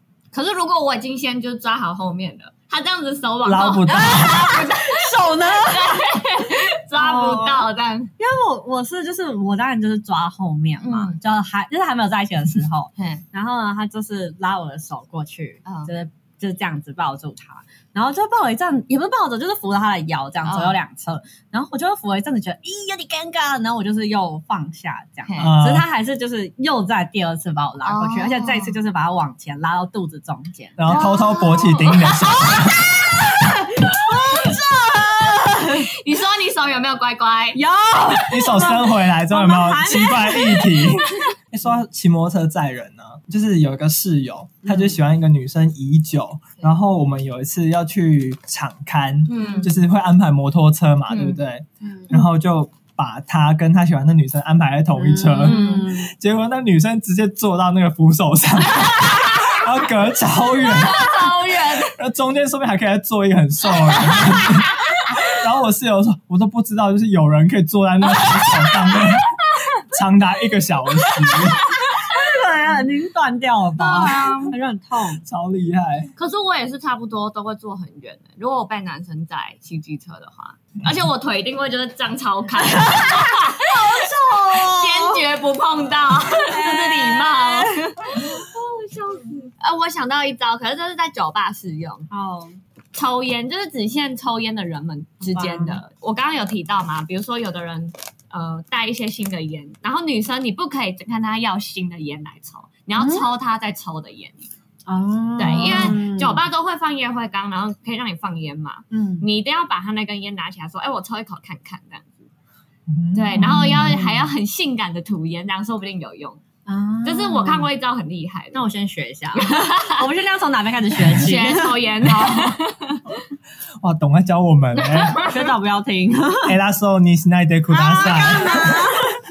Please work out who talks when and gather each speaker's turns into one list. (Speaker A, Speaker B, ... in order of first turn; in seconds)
Speaker A: 0.3-8.1, 10.8-11.2, 13.0-13.2, 15.7-15.9, 20.4-20.8, 25.3-25.5, 27.8-28.8, 30.9-32.1, 35.6-37.6, 49.3-49.8, 51.1-51.4, 55.4-56.0, 59.0-59.6, 60.6-62.0, 63.8-65.1, 68.2-69.1, 73.8-74.5, 76.2-83.9, 84.5-92.1, 92.9-104.5, 105.4-112.3, 113.1-116.4, 117.0-118.6, 119.4-120.0, 121.1-123.2, 124.8-125.4, 127.7-128.8
Speaker B: 3.4-4.6, 25.4-25.9, 30.8-33.0, 38.3-71.6, 75.2-76.1, 112.9-114.1, 123.8-125.2, 126.5-128.8
Speaker C: 3.9-6.1, 7.0-7.7, 8.2-35.9, 37.5-40.8, 44.6-45.0, 49.4-49.7, 51.8-52.2, 55.0-56.1, 71.9-75.2, 82.7-85.2, 86.4-89.2, 92.1-92.6, 95.2-95.8, 103.0-103.3, 104.9-106.4, 108.9-109.2, 113.4-114.2, 116.7-117.7, 118.5-122.6, 125.2-126.6, 128.0-129.1